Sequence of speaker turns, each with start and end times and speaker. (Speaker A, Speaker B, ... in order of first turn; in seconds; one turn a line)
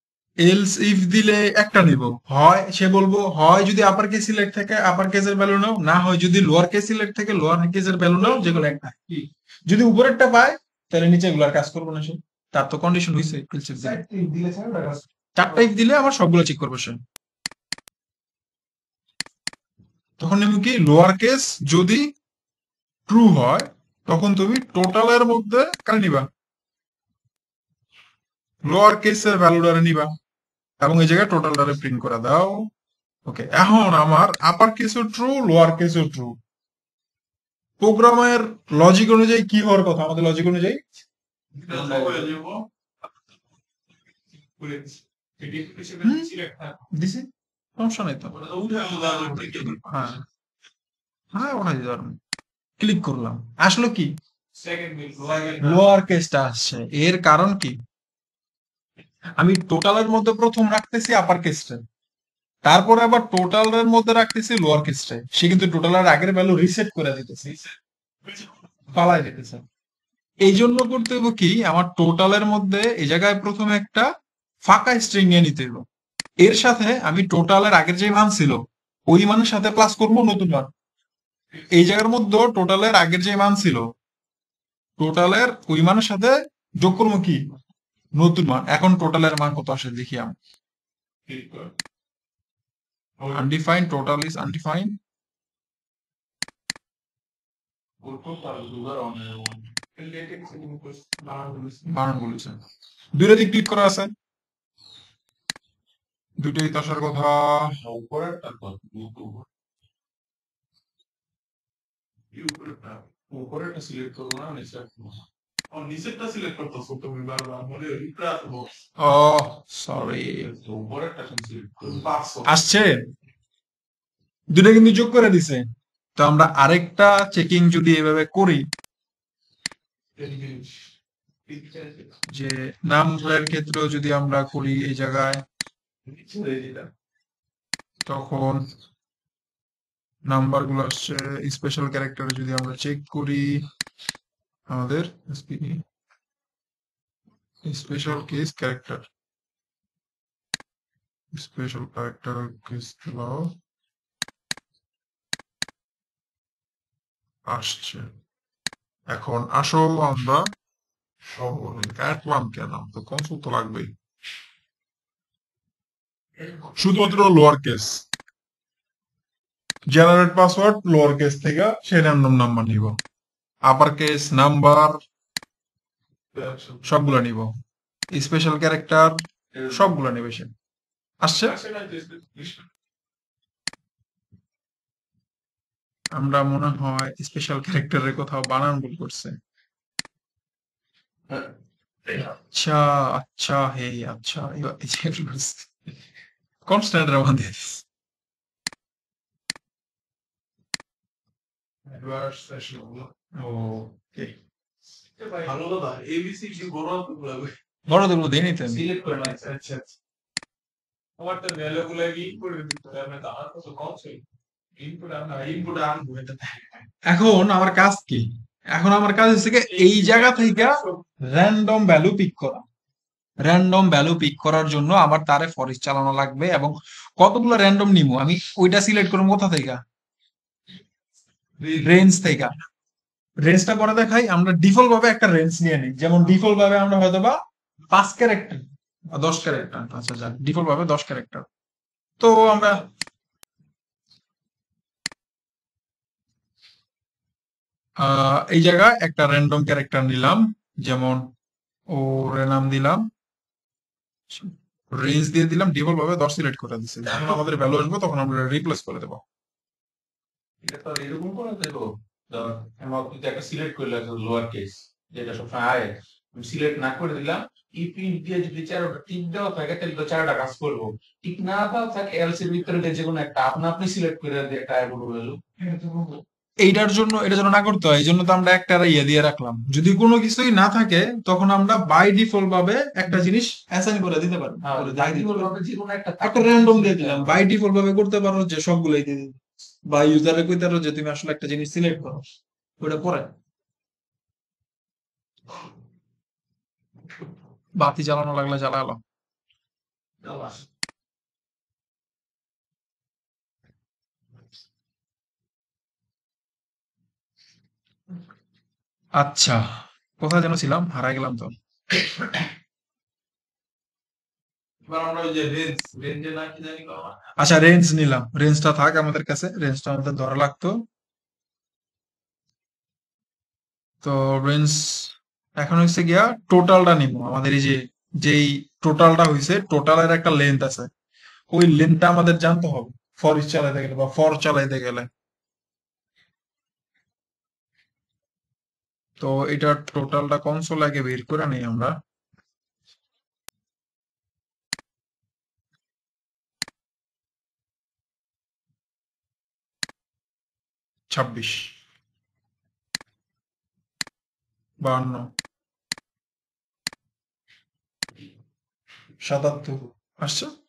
Speaker A: 0.4-9.1
Speaker B: 8.2-8.7
Speaker A: 9.7-14.0
Speaker C: 13.8-15.7
Speaker A: 15.3-17.0
Speaker A: 20.2-22.1
Speaker A: 23.1-26.3
Speaker A: 28.6-30.1
Speaker A: 30.8-32.7
Speaker A: 33.2-36.4
Speaker A: 37.8-40.8
Speaker B: 41.6-42.6
Speaker C: 41.7-42.3
Speaker B: 44.6-46.8
Speaker A: 46.0-46.3
Speaker A: 46.9-48.3
Speaker B: 48.3-50.1
Speaker C: 49.0-49.5
Speaker A: 49.8-50.2
Speaker A: 51.3-52.2
Speaker A: 52.8-54.1
Speaker B: 54.6-55.8
Speaker A: 55.6-57.8
Speaker A: 59.4-61.8
Speaker A: 62.6-67.5
Speaker A: 68.9-69.6
Speaker A: 70.4-74.1
Speaker A: 74.6-75.8
Speaker A: 76.4-80.7
Speaker A: 81.7-83.9
Speaker A: 85.0-87.4
Speaker A: 88.2-90.3
Speaker B: 91.3-91.7
Speaker A: 93.3-95.0
Speaker C: 98.0-99.7
Speaker B: 99.9-101.9
Speaker A: 101.9-102.6
Speaker A: 103.1-104.1
Speaker A: 106.4-107.7
Speaker C: 107.8-109.4
Speaker B: 112.3-113.0
Speaker C: 113.3-115.2
Speaker B: 115.7-118.7
Speaker A: 119.0-120.5
Speaker C: 120.6-122.0
Speaker B: 121.9-122.5
Speaker A: 122.4-123.0
Speaker A: 124.5-125.7
Speaker A: 126.2-128.7
Speaker B: 130.2-130.9
Speaker B: 131.5-132.1
Speaker A: 132.3-135.4
Speaker B: 136.1-136.9
Speaker A: 138.1-138.7
Speaker A: 140.2-143.6
Speaker A: 144.7-145.8
Speaker A: 147.6-149.1
Speaker A: 151.3-153.5
Speaker A: 157.5-158.1
Speaker A: 159.1-160.5
Speaker A: 161.4-163.9
Speaker A: 166.8-168.0
Speaker A: 169.9-173.0
Speaker A: 173.7-175.0
Speaker B: 176.3-176.8
Speaker A: 176.8-177.5
Speaker A: 178.1-179.2
Speaker C: 179.5-179.9
Speaker A: 179.7-180.5
Speaker A: 181.2-181.6
Speaker B: 181.4-182.6
Speaker A: 186.1-189.4
Speaker A: 192.4-195.7
Speaker A: 196.7-197.8
Speaker B: 201.9-203.1
Speaker A: 203.4-204.3
Speaker B: 205.2-207.5
Speaker A: 207.9-208.8
Speaker C: 208.7-209.5
Speaker B: 209.0-209.9
Speaker B: 211.2-214.2
Speaker B: 214.8-216.8
Speaker A: 217.1-222.6
Speaker B: 219.7-221.0
Speaker A: 223.4-229.8
Speaker B: 231.6-231.8
Speaker A: 231.8-232.5
Speaker A: 233.4-237.4
Speaker A: 237.9-241.5
Speaker A: 242.2-242.9
Speaker A: 248.0-251.3
Speaker A: 251.9-253.1
Speaker A: 254.3-259.2
Speaker C: 260.6-275.4
Speaker B: 275.6-276.2
Speaker A: 276.6-285.5
Speaker C: 284.6-287.4
Speaker A: 286.2-289.3
Speaker A: 289.9-292.2
Speaker A: 292.8-293.3
Speaker A: 297.8-299.0
Speaker B: 300.2-300.6
Speaker A: 309.1-311.5
Speaker C: 314.9-317.1
Speaker A: 317.4-320.8
Speaker A: 324.0-330.9
Speaker A: 331.5-335.1
Speaker A: 339.2-341.9
Speaker A: 351.1-351.7
Speaker A: 354.8-355.3
Speaker A: 359.2-360.5